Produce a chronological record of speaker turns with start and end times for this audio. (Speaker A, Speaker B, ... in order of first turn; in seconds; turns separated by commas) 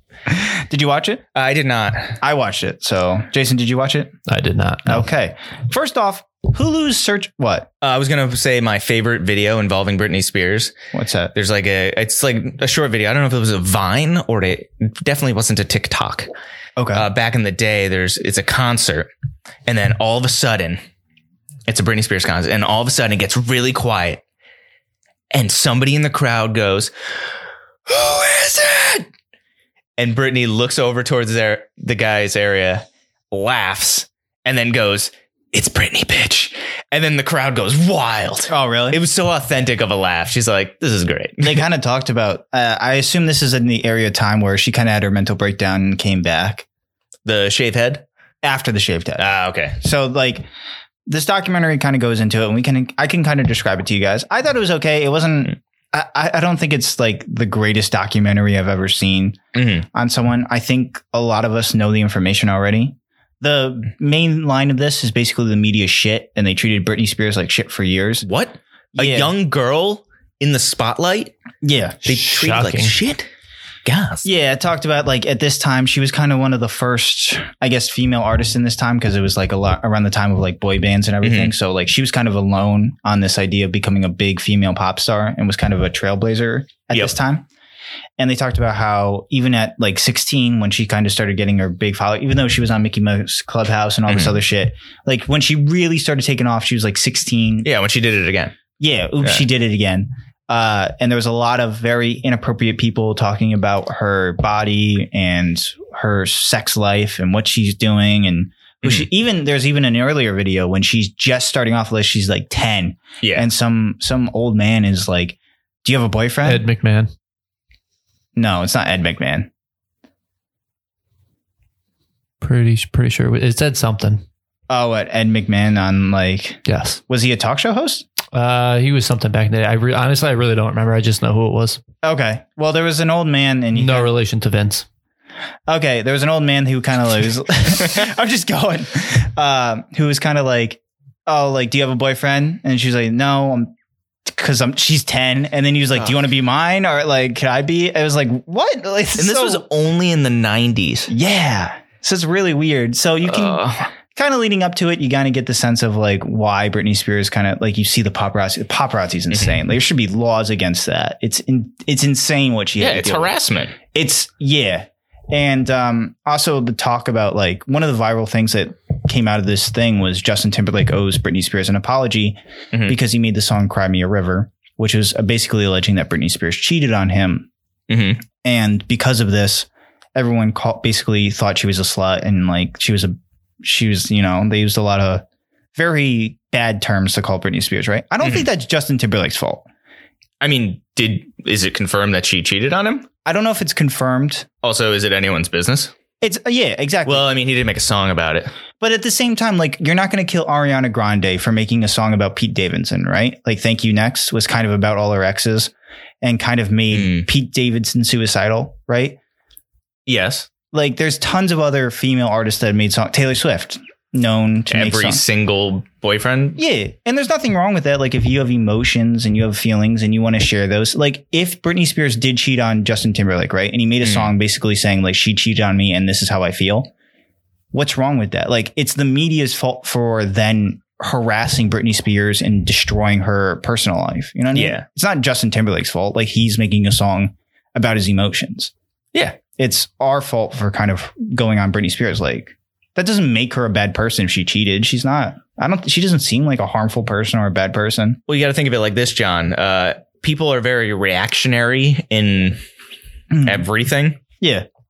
Speaker A: 0.3-1.2, Speaker B: 1.4-2.2, Speaker A: 2.2-4.2, Speaker C: 4.3-5.1, Speaker A: 4.9-7.7, Speaker B: 7.8-10.8, Speaker A: 10.9-11.3, Speaker B: 11.3-16.3, Speaker A: 16.8-17.1, Speaker B: 16.9-19.1, Speaker B: 19.7-20.8, Speaker B: 21.7-24.2, Speaker B: 25.3-26.9, Speaker B: 27.9-29.1, Speaker B: 30.0-41.6, Speaker A: 38.5-39.0, Speaker A: 41.4-46.7, Speaker B: 47.2-48.0, Speaker A: 48.4-50.5, Speaker B: 49.2-49.8, Speaker A: 51.1-59.4, Speaker B: 59.5-59.9, Speaker A: 59.9-68.2, Speaker B: 68.2-71.3, Speaker A: 69.0-69.3, Speaker A: 71.6-72.0, Speaker B: 72.0-73.3, Speaker C: 72.1-73.0, Speaker B: 73.8-74.3, Speaker A: 74.2-87.5, Speaker B: 81.2-81.5, Speaker A: 88.2-97.7, Speaker B: 94.1-94.4, Speaker B: 97.6-98.6, Speaker A: 98.8-116.7, Speaker B: 113.2-113.5, Speaker C: 116.4-117.1, Speaker A: 118.4-119.5, Speaker C: 122.4-124.2, Speaker A: 124.7-128.1, Speaker C: 126.7-127.0, Speaker C: 128.3-131.8, Speaker A: 132.0-134.1, Speaker C: 133.7-134.8, Speaker A: 135.7-143.7, Speaker A: 144.3-149.6, Speaker B: 149.2-151.1, Speaker A: 151.1-163.3, Speaker B: 153.3-153.9, Speaker B: 159.3-159.6, Speaker B: 162.8-163.8, Speaker A: 163.9-177.5, Speaker B: 177.9-178.2, Speaker A: 178.4-189.7, Speaker B: 188.2-188.5, Speaker B: 190.4-193.1, Speaker A: 193.2-194.5, Speaker B: 194.6-195.9, Speaker A: 196.2-197.3, Speaker B: 197.1-198.5, Speaker A: 198.8-209.2, Speaker B: 206.9-207.3, Speaker B: 210.1-210.5, Speaker A: 210.7-215.2, Speaker B: 214.7-216.6, Speaker A: 216.6-226.9, Speaker B: 224.0-224.3, Speaker A: 227.7-238.7, Speaker B: 234.5-234.8, Speaker B: 239.1-239.4, Speaker A: 239.6-248.2, Speaker B: 248.3-252.6, Speaker A: 253.3-253.7, Speaker B: 253.4-254.2, Speaker A: 254.4-254.7